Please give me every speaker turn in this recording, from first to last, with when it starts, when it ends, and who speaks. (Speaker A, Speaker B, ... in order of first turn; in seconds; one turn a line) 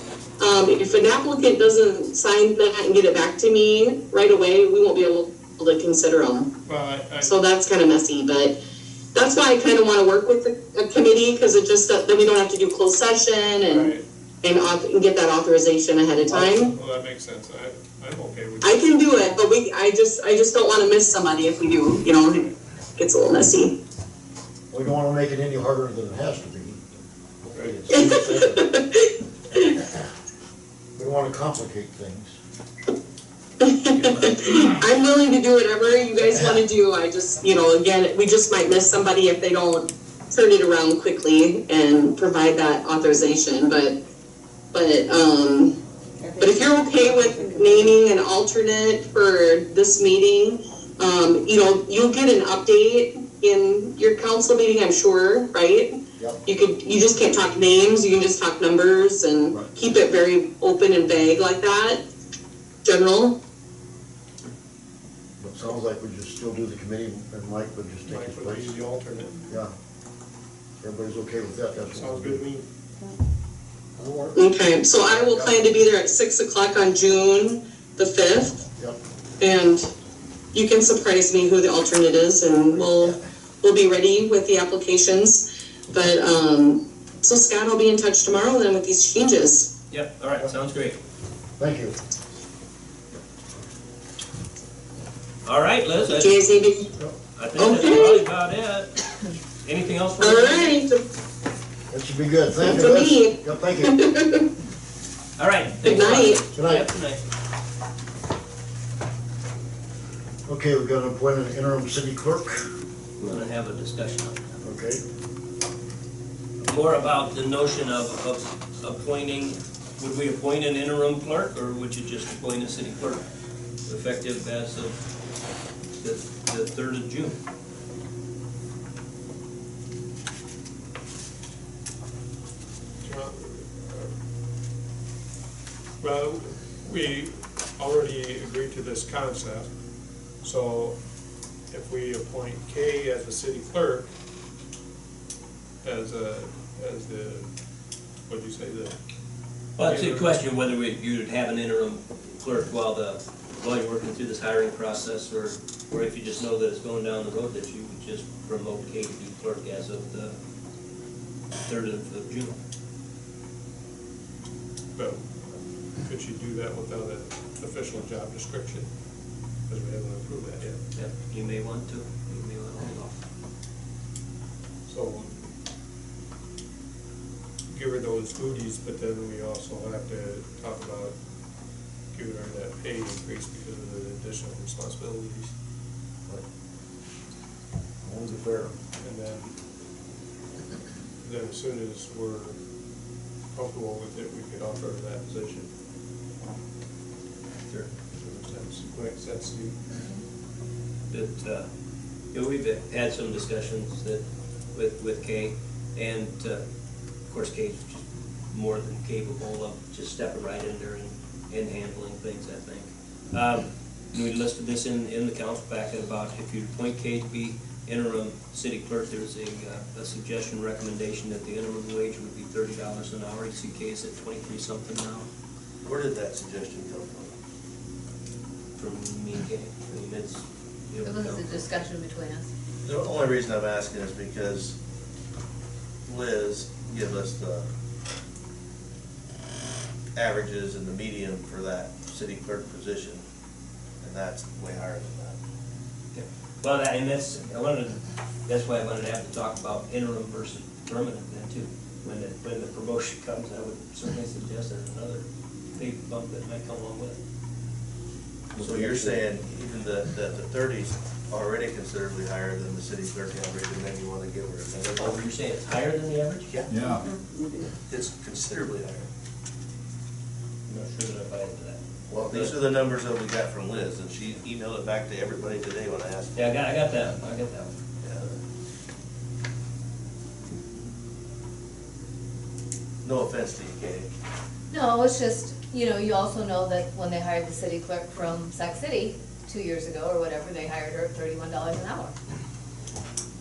Speaker A: 0.4-6.5
Speaker B: 6.6-7.4
Speaker A: 7.2-8.5
Speaker A: 9.1-16.7
Speaker B: 13.7-14.0
Speaker B: 16.2-19.4
Speaker A: 18.6-23.7
Speaker B: 22.3-22.5
Speaker C: 24.7-26.8
Speaker C: 27.5-28.8
Speaker A: 27.9-29.7
Speaker C: 30.9-32.4
Speaker A: 33.6-44.0
Speaker C: 36.2-36.6
Speaker A: 44.7-45.7
Speaker A: 46.4-55.9
Speaker A: 56.4-62.0
Speaker A: 62.8-63.4
Speaker C: 65.4-68.8
Speaker B: 68.0-69.4
Speaker C: 69.5-69.7
Speaker C: 70.8-72.4
Speaker B: 71.9-72.7
Speaker C: 74.0-74.4
Speaker A: 74.3-78.6
Speaker C: 75.0-75.8
Speaker C: 78.7-79.0
Speaker A: 79.4-79.9
Speaker A: 80.5-89.7
Speaker C: 82.8-83.1
Speaker D: 89.9-91.0
Speaker C: 91.6-92.0
Speaker D: 95.4-96.4
Speaker A: 96.1-96.9
Speaker D: 97.3-100.8
Speaker A: 97.6-98.2
Speaker A: 100.2-101.0
Speaker C: 101.9-104.0
Speaker A: 102.6-104.4
Speaker D: 105.4-107.2
Speaker A: 105.8-106.4
Speaker C: 106.5-106.9
Speaker C: 110.4-112.7
Speaker D: 113.2-114.6
Speaker C: 114.6-115.0
Speaker D: 116.7-123.2
Speaker D: 123.8-125.0
Speaker D: 126.0-127.4
Speaker B: 133.0-134.1
Speaker B: 136.0-139.7
Speaker B: 140.4-141.0
Speaker B: 141.7-144.1
Speaker B: 145.8-147.5
Speaker B: 148.3-149.0
Speaker D: 149.8-160.3
Speaker B: 149.8-150.3
Speaker D: 161.6-162.6
Speaker B: 164.9-168.9
Speaker B: 169.7-170.8
Speaker D: 170.9-173.2
Speaker B: 174.9-175.3
Speaker B: 177.7-181.2
Speaker B: 182.1-185.5
Speaker C: 188.0-188.7
Speaker B: 189.0-189.6
Speaker B: 191.2-192.6
Speaker B: 193.5-195.7
Speaker B: 198.1-199.8
Speaker D: 201.1-201.7
Speaker D: 202.3-204.2
Speaker D: 204.7-206.6
Speaker D: 207.3-225.3
Speaker E: 225.8-227.3
Speaker D: 228.8-231.7
Speaker F: 231.0-232.5
Speaker E: 232.8-234.8
Speaker E: 236.0-237.7
Speaker E: 240.1-243.2
Speaker E: 244.0-245.4
Speaker D: 246.1-255.2
Speaker D: 255.8-257.2
Speaker C: 258.6-259.1
Speaker E: 258.6-265.2
Speaker D: 265.0-266.5
Speaker E: 266.5-266.8
Speaker E: 267.9-269.1
Speaker D: 270.7-272.6
Speaker E: 272.1-276.6
Speaker D: 276.3-277.7
Speaker E: 278.0-278.4
Speaker E: 283.0-284.1
Speaker F: 284.7-292.1